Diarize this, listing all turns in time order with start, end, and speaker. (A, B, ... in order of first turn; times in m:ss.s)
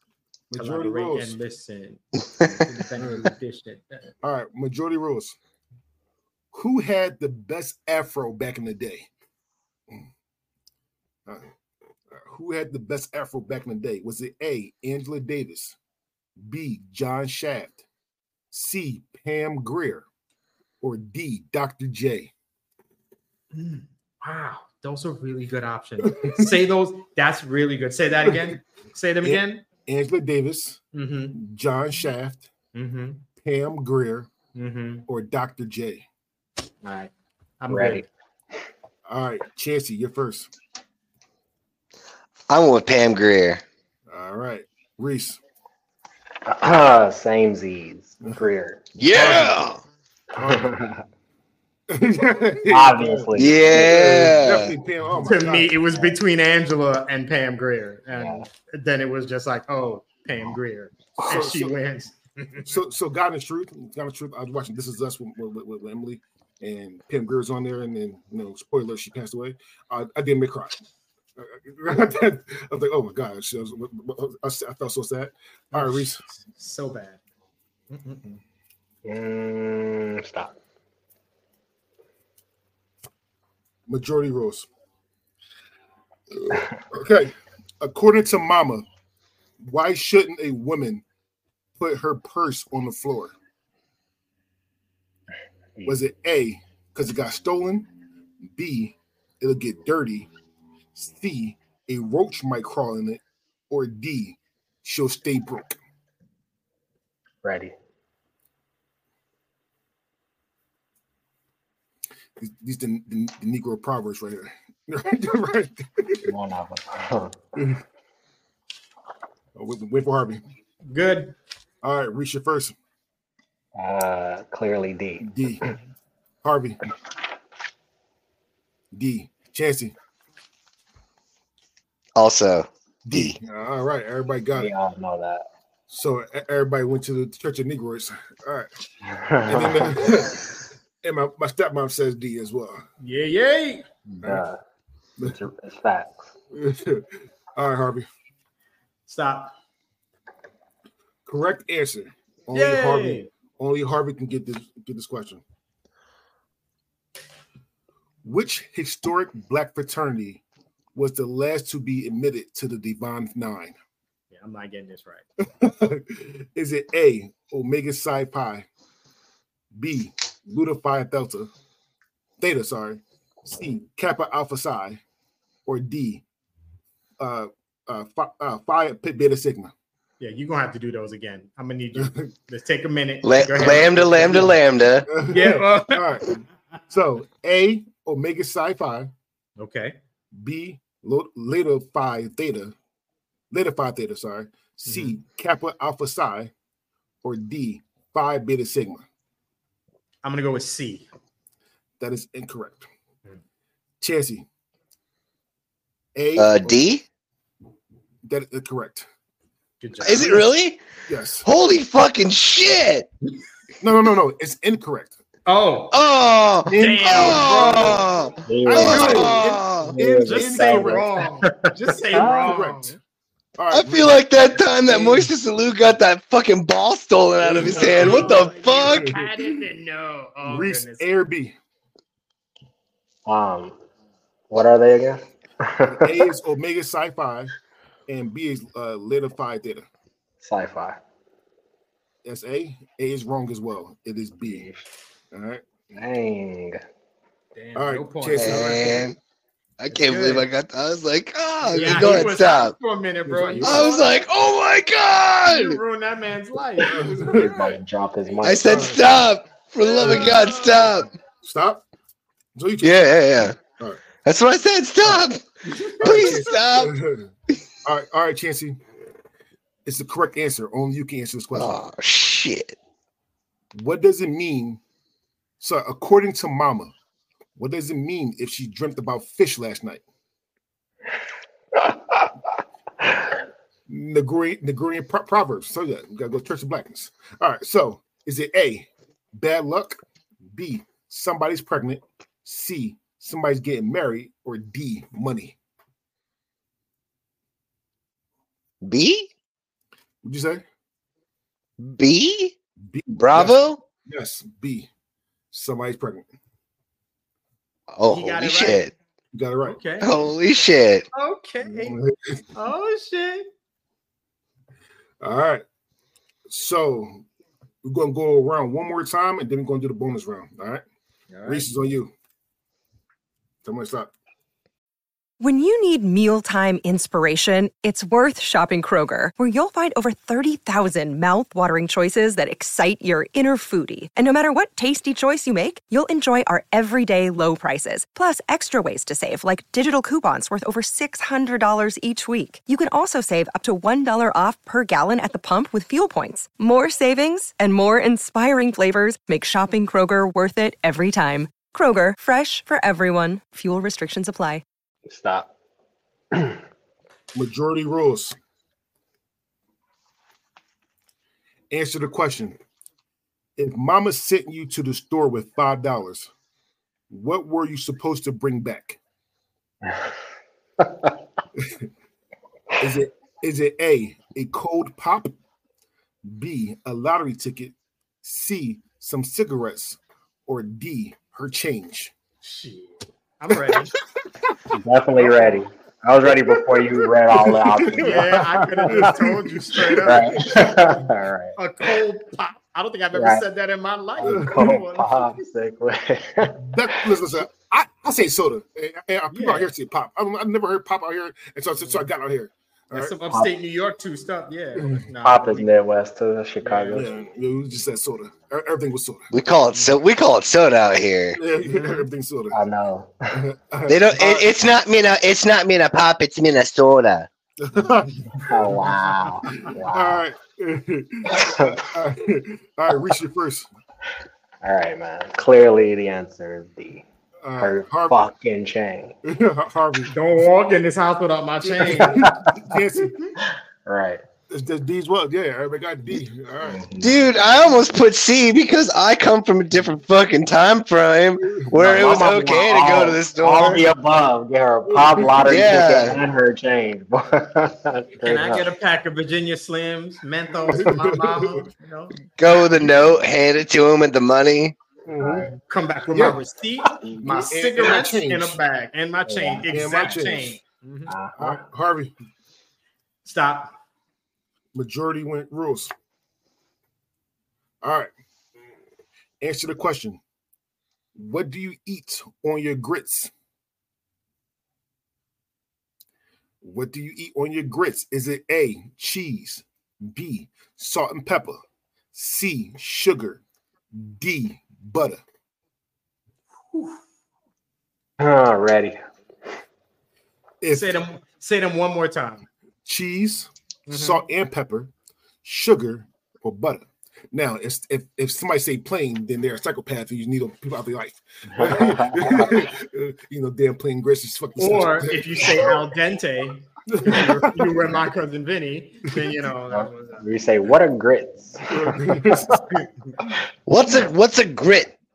0:00.5-0:01.3 A
0:00.5-0:04.0 B
0:03.0-0:03.2 A
0:04.2-0:05.4 A
0:06.5-0:09.1 A
0:12.1-0:15.8 A
0:16.4-0:17.8 A
0:18.5-0:20.0 A
0:20.8-0:22.3 A
0:23.5-0:29.6 B
0:26.0-0:26.5 A
0:28.2-0:28.5 A
0:29.2-0:30.8 A
0:30.9-0:31.4 B
0:31.3-0:32.5 A
0:32.7-0:33.2 B
0:33.4-0:34.3 A
0:34.5-0:35.1 B
0:35.1-0:36.1 A
0:36.8-0:37.1 C
0:37.6-0:38.0 B
0:37.7-0:38.1 C
0:39.1-0:40.5 A
0:42.5-0:43.6 D
0:44.1-0:45.4 A
0:46.4-0:49.3 C
0:49.0-0:49.8 D
0:49.1-0:49.5 A
0:50.4-0:50.8 A
0:50.4-0:51.0 C
0:51.9-0:55.7 A
0:52.7-0:54.3 C
0:53.4-0:54.7 D
0:55.2-1:02.7 B
0:58.1-0:58.4 C
1:01.2-1:01.8 A
1:02.6-1:10.8 A
1:11.4-1:16.2 A
1:15.7-1:17.2 B
1:17.9-1:18.4 B
1:19.0-1:20.6 C
1:23.9-1:24.7 A
1:26.3-1:28.8 A
1:29.6-1:31.0 A
1:31.8-1:33.3 A
1:35.8-1:37.9 A
1:38.5-1:40.3 A
1:40.9-1:45.8 A
1:47.4-1:47.7 C
1:52.4-1:56.3 A
1:56.2-1:57.4 C
1:57.6-1:57.8 A
1:59.6-2:00.4 A
2:00.9-2:01.3 B
2:01.8-2:02.7 A
2:03.7-2:05.3 C
2:05.2-2:05.6 A
2:06.4-2:06.8 A
2:08.9-2:09.9 A
2:12.2-2:13.4 D
2:13.0-2:14.7 A
2:14.6-2:15.4 C
2:15.9-2:18.7 A
2:19.0-2:20.2 C
2:19.4-2:20.5 A
2:21.0-2:22.8 A
2:23.0-2:23.8 B
2:24.1-2:24.6 C
2:25.2-2:26.3 C
2:26.5-2:28.1 A
2:29.1-2:29.5 B
2:31.2-2:35.4 A
2:32.5-2:33.3 B
2:38.2-2:40.4 A
2:40.9-2:43.8 A
2:44.3-2:45.2 B
2:45.5-2:48.6 A
2:49.7-2:51.5 A
2:52.4-2:55.0 A
2:55.6-2:56.2 A
2:57.2-2:59.7 A
3:00.2-3:04.6 B
3:02.0-3:02.2 A
3:03.2-3:05.1 D
3:03.7-3:04.5 A
3:05.1-3:09.1 A
3:05.2-3:06.2 B
3:09.6-3:10.0 B
3:10.3-3:12.7 A
3:13.5-3:16.5 A
3:14.8-3:15.2 B
3:17.2-3:19.0 A
3:20.2-3:21.0 B
3:22.0-3:22.9 A
3:24.0-3:24.5 A
3:26.1-3:26.9 A
3:26.4-3:27.0 D
3:28.2-3:29.1 A
3:29.8-3:30.5 B
3:30.0-3:30.8 D
3:31.1-3:31.5 A
3:31.4-3:33.1 D
3:33.8-3:35.2 A
3:35.4-3:36.0 B
3:35.9-3:40.0 D
3:36.6-3:38.1 A
3:36.7-3:38.0 B
3:38.4-3:42.6 C
3:38.6-3:41.1 A
3:38.8-3:43.0 B
3:42.2-3:43.0 A
3:43.6-3:45.3 A
3:43.7-3:49.1 D
3:47.4-3:49.5 A
3:47.5-3:51.1 B
3:50.4-3:51.6 A
3:53.2-3:53.8 C
3:54.5-3:56.3 C
3:55.8-3:57.5 A
3:58.1-3:59.8 A
4:00.4-4:01.0 C
4:02.2-4:04.6 A
4:04.4-4:04.8 C
4:05.3-4:05.9 A
4:05.9-4:06.8 C
4:07.6-4:09.0 B
4:07.7-4:09.0 A
4:08.4-4:09.2 D
4:09.8-4:12.7 D
4:09.9-4:10.5 B
4:11.6-4:12.3 A
4:11.7-4:14.2 B
4:13.2-4:14.0 A
4:13.6-4:15.8 D
4:15.4-4:17.7 B
4:16.9-4:17.6 A
4:17.2-4:19.0 C
4:18.4-4:21.1 D
4:18.6-4:19.1 A
4:19.8-4:21.0 B
4:20.0-4:20.4 A
4:21.4-4:21.8 A
4:22.6-4:24.0 A
4:22.8-4:23.6 D
4:24.2-4:26.9 D
4:25.8-4:26.1 B
4:26.0-4:27.3 A
4:27.8-4:28.8 A
4:29.8-4:31.8 A
4:31.5-4:32.8 D
4:33.7-4:34.8 A
4:35.6-4:36.9 A
4:37.6-4:40.0 A
4:43.9-4:55.6 A
4:58.8-4:59.3 D
5:00.2-5:00.6 A
5:01.8-5:02.5 D
5:02.8-5:04.9 A
5:03.2-5:03.8 D
5:05.5-5:06.3 A
5:08.0-5:08.9 D
5:08.0-5:08.8 B
5:09.3-5:09.8 A
5:09.6-5:10.3 B
5:10.0-5:11.0 D
5:11.1-5:12.0 B
5:11.6-5:12.4 A
5:12.5-5:13.5 B
5:15.2-5:15.6 A
5:16.5-5:17.2 A
5:17.8-5:20.8 A
5:21.3-5:21.6 B
5:21.4-5:22.1 A
5:23.6-5:24.1 A
5:25.4-5:54.6 E
5:55.1-5:55.5 C
5:56.3-5:56.6 C
5:57.3-5:58.4 A
6:01.7-6:02.6 A
6:03.6-6:06.3 A
6:07.1-6:09.0 A
6:11.6-6:11.9 A
6:12.8-6:15.3 A
6:16.2-6:22.1 A
6:22.4-6:23.9 B
6:23.5-6:23.8 A
6:24.7-6:29.2 C
6:25.2-6:25.5 A
6:26.3-6:31.0 A
6:28.0-6:30.6 B
6:30.0-6:31.6 C
6:31.6-6:35.4 B
6:33.1-6:33.4 C
6:34.2-6:37.0 C
6:34.2-6:34.8 A
6:36.6-6:43.1 A
6:39.3-6:39.7 B
6:42.9-6:45.7 B
6:44.8-6:45.0 A
6:45.2-6:47.1 C
6:46.6-6:47.0 B
6:46.9-6:49.3 A
6:49.3-6:51.4 D
6:51.4-6:52.6 A
6:52.5-6:53.1 C
6:53.3-6:54.5 A
6:53.9-6:57.3 D
6:57.6-6:58.7 A
6:58.4-7:00.2 C
6:59.5-7:03.7 A
7:01.3-7:01.8 C
7:04.6-7:07.0 C
7:07.4-7:08.2 A
7:07.6-7:09.1 C
7:09.2-7:10.1 A
7:10.1-7:12.2 B
7:11.6-7:13.1 A
7:11.9-7:12.6 C
7:13.8-7:14.2 C
7:14.5-7:16.8 A
7:16.6-7:17.2 C
7:17.0-7:23.8 D
7:21.4-7:21.9 A
7:21.8-7:28.7 C
7:24.9-7:25.9 A
7:25.4-7:26.2 D
7:28.2-7:32.1 B
7:30.7-7:31.6 A
7:32.4-7:34.8 D
7:35.1-7:35.6 C
7:35.2-7:35.5 A
7:35.6-7:41.1 B
7:36.1-7:36.4 A
7:36.9-7:37.2 C
7:37.2-7:38.6 A
7:39.3-7:40.0 C
7:39.7-7:40.6 A
7:41.1-7:41.6 C
7:41.4-7:42.1 A
7:43.2-7:43.7 B
7:44.7-7:45.9 A
7:47.8-7:48.1 A
7:49.4-7:50.2 A
7:51.2-7:53.3 A
7:56.6-8:01.6 A
8:02.1-8:03.4 A
8:03.9-8:05.2 A
8:08.2-8:09.0 C
8:10.6-8:11.0 A
8:10.7-8:12.5 B
8:12.8-8:14.9 A
8:13.9-8:14.2 B
8:15.4-8:25.8 A
8:21.5-8:22.6 C
8:24.6-8:30.2 B
8:26.9-8:27.8 A
8:29.7-8:32.4 C
8:31.7-8:32.8 A
8:33.7-8:34.9 D